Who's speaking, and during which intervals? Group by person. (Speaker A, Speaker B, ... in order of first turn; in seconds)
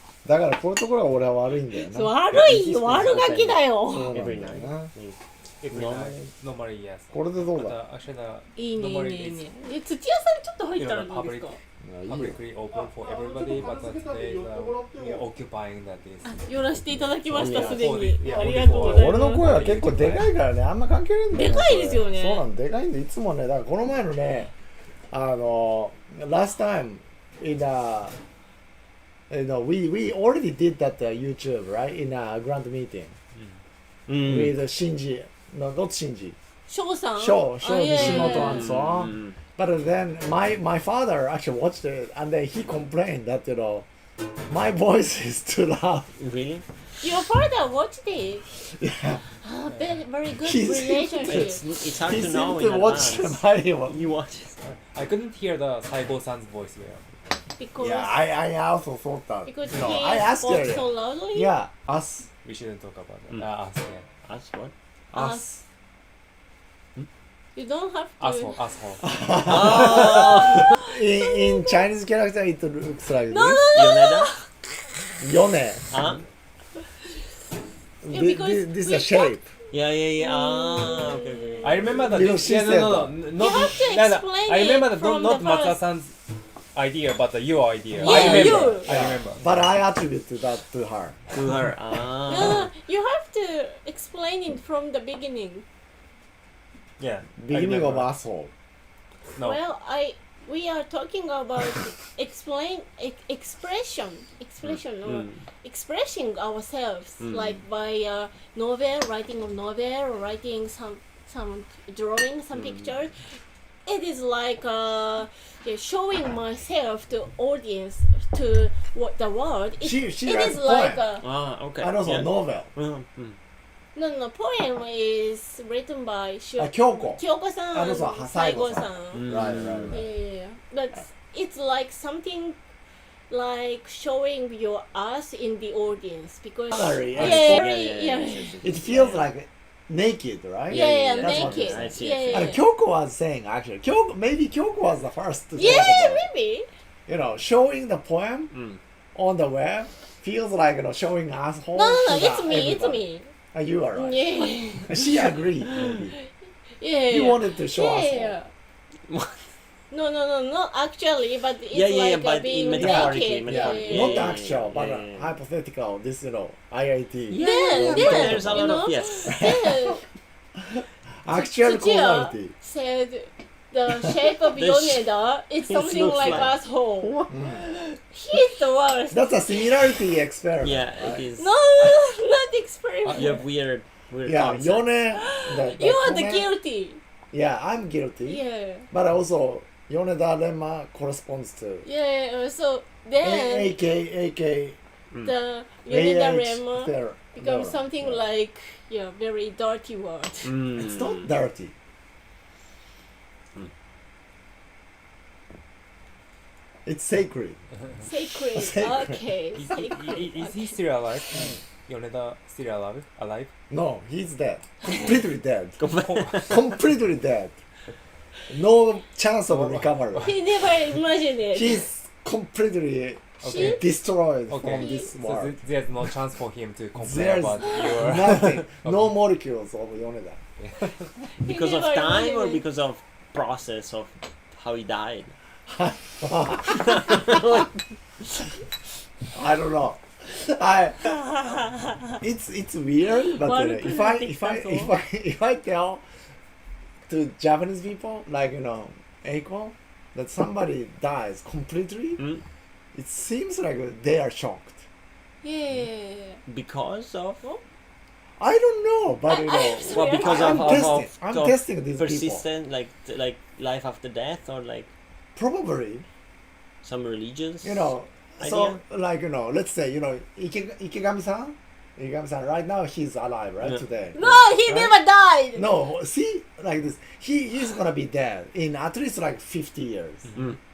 Speaker A: 0.2-2.1, 3.9-4.9, 7.1-7.8, 11.8-12.4, 13.0-15.2, 17.3-24.5, 25.1-28.1, 29.3-33.1, 34.2-36.4, 37.2-43.9, 44.5-46.1, 48.6-49.2, 50.4-54.0, 57.8-62.3, 65.1-65.6, 69.0-73.7, 75.2-75.9, 78.0-79.5, 82.1-83.2, 88.0-91.2, 97.4-98.5, 119.8-121.0, 121.8-122.7, 126.6-130.0, 136.7-137.7, 138.6-146.2, 147.1-148.5, 149.1-154.3, 154.8-156.1, 157.1-158.4, 162.7-170.0, 170.6-172.5, 176.2-176.5, 177.3-177.6, 179.1-181.2, 184.2-186.5, 187.3-191.8, 193.2-194.8, 195.9-198.2, 200.7-201.7, 206.8-207.6, 208.5-209.3, 213.7-215.8, 216.3-217.6, 218.5-220.3, 221.5-225.6, 226.9-230.4, 235.7-237.5, 239.3-241.2, 242.2-246.0, 247.1-252.2, 252.9-254.8, 258.4-262.4, 265.3-266.1, 267.6-274.9, 275.5-280.3
Speaker B: 1.7-4.1, 8.6-11.6, 16.2-19.5, 21.3-22.4, 36.7-38.7, 47.0-48.4, 49.4-51.6, 57.6-58.1, 59.5-61.5, 65.1-65.5, 67.5-68.6, 70.3-71.8, 73.3-74.5, 78.1-79.4, 80.2-82.0, 83.4-85.8, 88.0-88.9, 92.2-95.6, 99.4-121.2, 123.9-129.2, 129.9-132.6, 133.3-138.6, 140.7-142.6, 145.6-146.7, 151.7-153.3, 153.9-158.5, 159.9-164.3, 167.4-170.0, 171.6-179.7, 181.3-183.4, 185.1-187.0, 188.2-188.9, 191.8-193.8, 195.2-200.5, 208.0-210.8, 220.2-221.8, 223.4-223.8, 224.7-225.1, 231.2-232.6, 243.4-244.9, 255.4-256.4, 259.2-260.9, 274.1-275.7
Speaker C: 2.3-5.2, 5.7-6.3, 34.1-34.5, 37.9-39.4, 46.2-46.6, 51.2-54.6, 64.2-64.7, 69.4-70.7, 73.7-74.3, 75.9-76.2, 79.7-82.0, 91.3-92.7, 97.0-97.3, 104.6-105.4, 107.2-107.6, 112.5-112.9, 121.2-123.4, 129.1-130.0, 137.1-139.3, 140.7-142.5, 148.5-148.8, 159.1-159.4, 161.7-165.3, 167.3-169.4, 174.5-175.1, 175.6-176.6, 180.6-181.5, 183.1-184.9, 200.4-201.3, 215.8-216.6, 231.4-235.3, 236.8-237.7, 252.2-252.4, 256.4-257.4, 259.9-264.9, 266.8-268.8
Speaker D: 5.6-9.4, 10.8-16.3, 16.9-20.3, 54.6-57.0, 62.4-64.0, 68.2-69.9, 81.6-86.1, 86.7-89.4, 97.5-98.1, 183.0-183.4, 209.9-213.5, 216.0-216.3, 219.5-220.3, 223.4-223.8, 224.5-229.1, 230.6-230.9